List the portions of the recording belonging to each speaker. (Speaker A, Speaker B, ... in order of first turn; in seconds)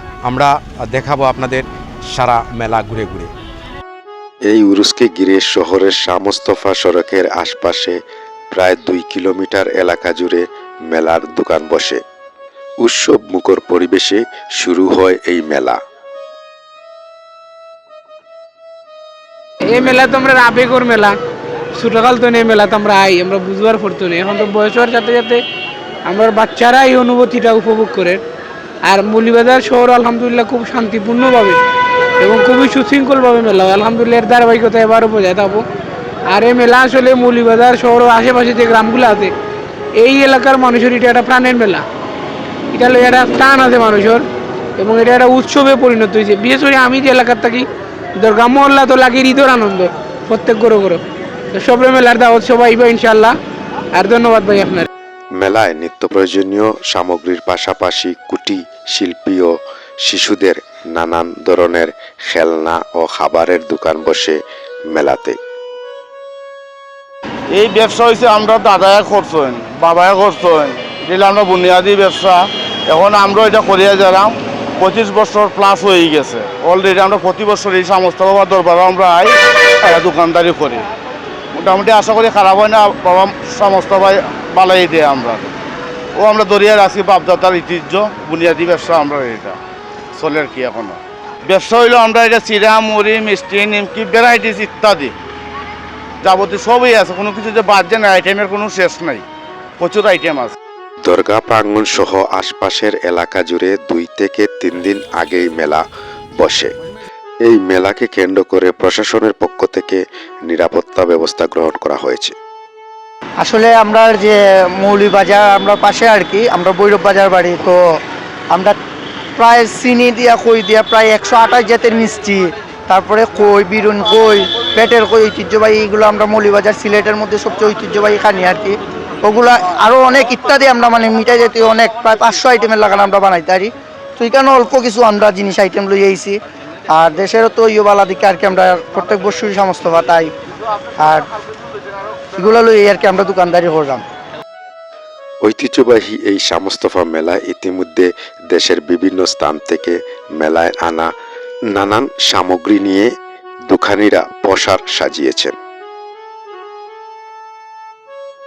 Speaker A: 0.2-3.3
Speaker B: 4.5-8.0, 8.5-12.0, 12.8-15.8, 55.4-65.4, 101.0-105.8, 106.4-106.7, 107.4-112.3, 145.4-151.1, 151.7-153.1, 153.7-155.5
Speaker C: 19.6-21.1, 21.7-25.4, 26.1-28.2, 28.8-31.6, 32.2-35.6, 36.3-39.3, 40.0-41.8, 42.7-44.2, 44.8-51.0, 51.5-53.4, 53.9-54.9
Speaker D: 67.5-80.8, 81.5-85.5, 86.1-89.6, 90.1-95.1, 96.2-99.2, 99.8-100.5
Speaker E: 113.4-118.0, 118.5-118.8, 119.3-140.3, 141.0-141.3, 142.3-144.0